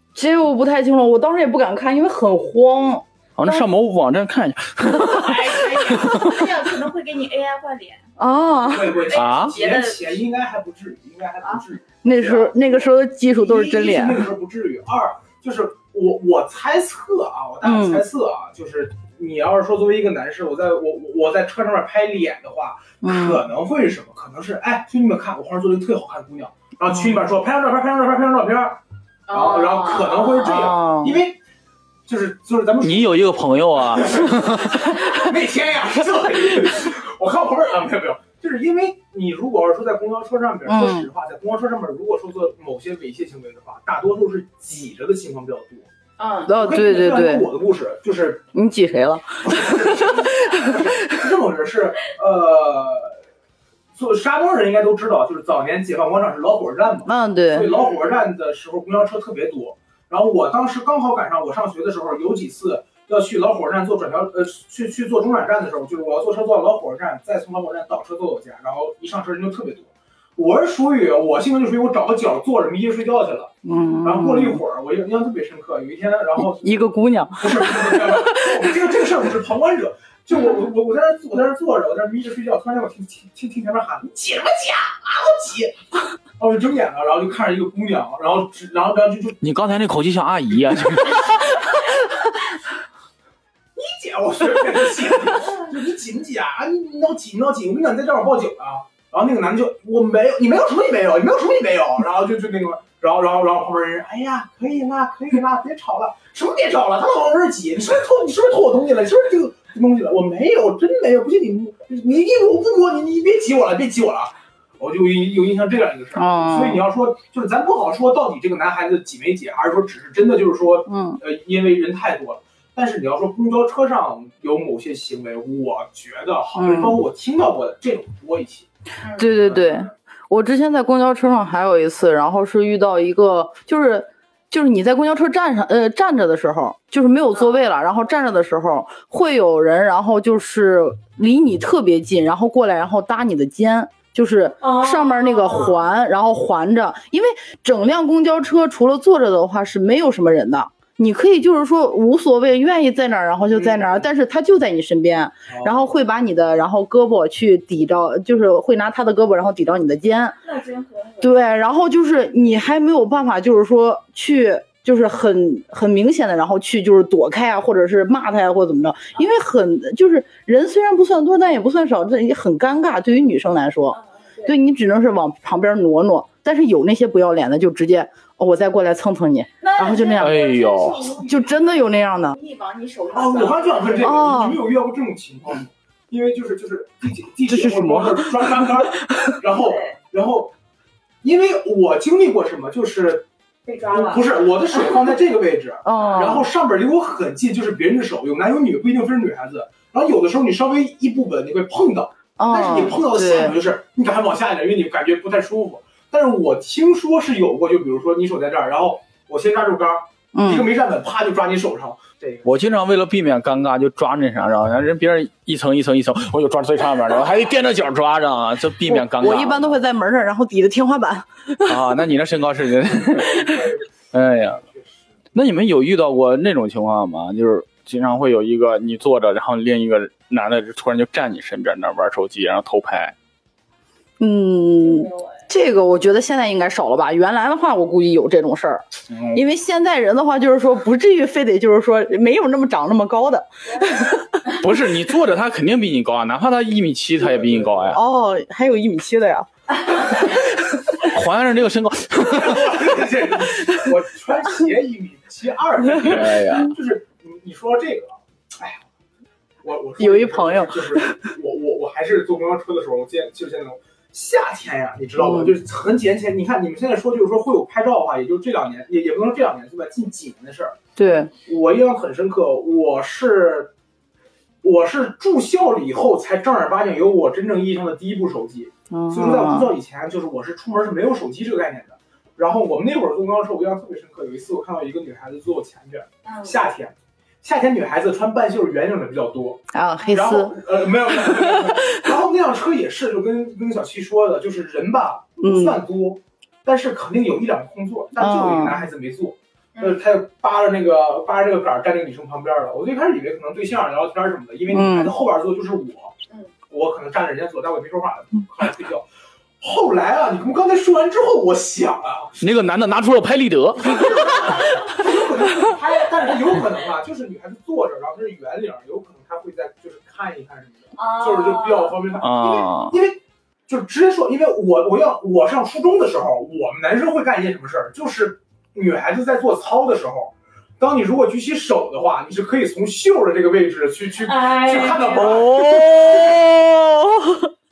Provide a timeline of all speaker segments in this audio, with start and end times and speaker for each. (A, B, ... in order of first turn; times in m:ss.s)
0:00.2-0:03.7 A
0:03.4-0:06.5 B
0:05.3-0:08.0 C
0:05.3-0:05.6 D
0:08.2-0:09.1 A
0:08.6-0:31.4 D
0:09.1-0:10.2 C
0:09.1-0:09.6 B
0:12.0-0:14.3 A
0:17.6-0:18.0 A
0:23.0-0:23.4 A
0:29.3-0:30.5 C
0:30.4-0:31.2 A
0:32.1-0:33.1 D
0:32.8-0:35.3 B
0:33.9-0:45.9 D
0:40.6-0:41.1 A
0:46.2-0:46.5 C
0:46.5-0:47.5 A
0:46.6-0:48.4 D
0:48.5-0:51.3 A
0:49.4-0:53.2 D
0:54.0-1:13.5 D
0:57.0-0:57.7 A
1:13.6-1:14.6 A
1:14.0-1:16.7 D
1:16.4-1:18.8 A
1:17.4-1:25.8 D
1:26.4-1:29.4 D
1:29.4-1:31.7 B
1:33.8-2:08.7 D
1:56.2-1:56.9 A
2:00.9-2:01.2 A
2:06.6-2:07.0 A
2:09.0-2:09.3 C
2:09.2-2:40.4 A
2:09.4-2:09.9 D
2:24.6-2:25.8 C
2:33.5-2:34.1 D
2:35.5-2:35.8 D
2:40.4-2:41.4 C
2:41.2-3:00.4 A
2:53.9-2:54.5 C
2:59.6-3:01.5 C
3:00.2-3:01.1 B
3:01.2-3:02.4 A
3:02.3-3:04.1 C
3:03.1-3:10.5 D
3:04.0-3:04.6 A
3:07.5-3:09.4 A
3:09.6-3:10.0 C
3:11.2-3:13.3 D
3:13.7-3:14.8 C
3:13.9-3:32.5 D
3:15.8-3:16.5 A
3:22.4-3:23.6 A
3:30.3-3:30.7 A
3:32.4-3:39.7 B
3:38.9-3:42.0 A
3:41.6-3:44.6 B
3:43.2-3:44.9 D
3:45.3-3:53.1 B
3:54.2-4:04.4 A
3:54.8-3:55.4 C
3:59.1-3:59.4 B
4:04.5-4:08.0 B
4:07.2-4:08.0 D
4:07.9-4:09.5 A
4:10.9-4:12.9 B
4:12.2-4:18.8 D
4:15.9-4:16.7 B
4:19.6-4:30.8 D
4:20.0-4:21.3 A
4:25.2-4:25.6 A
4:31.0-4:31.3 A
4:31.4-4:33.7 D
4:34.6-5:06.1 D
4:38.9-4:39.7 A
4:46.2-4:46.6 C
4:49.7-4:52.1 A
4:55.4-4:55.8 A
4:58.2-4:58.9 A
4:59.8-5:00.0 C
5:04.7-5:05.2 A
5:06.7-5:09.1 D
5:09.6-5:12.4 D
5:12.4-5:14.7 B
5:13.8-5:35.7 D
5:21.0-5:22.0 C
5:22.2-5:23.0 B
5:34.2-5:35.4 C
5:35.2-5:37.5 A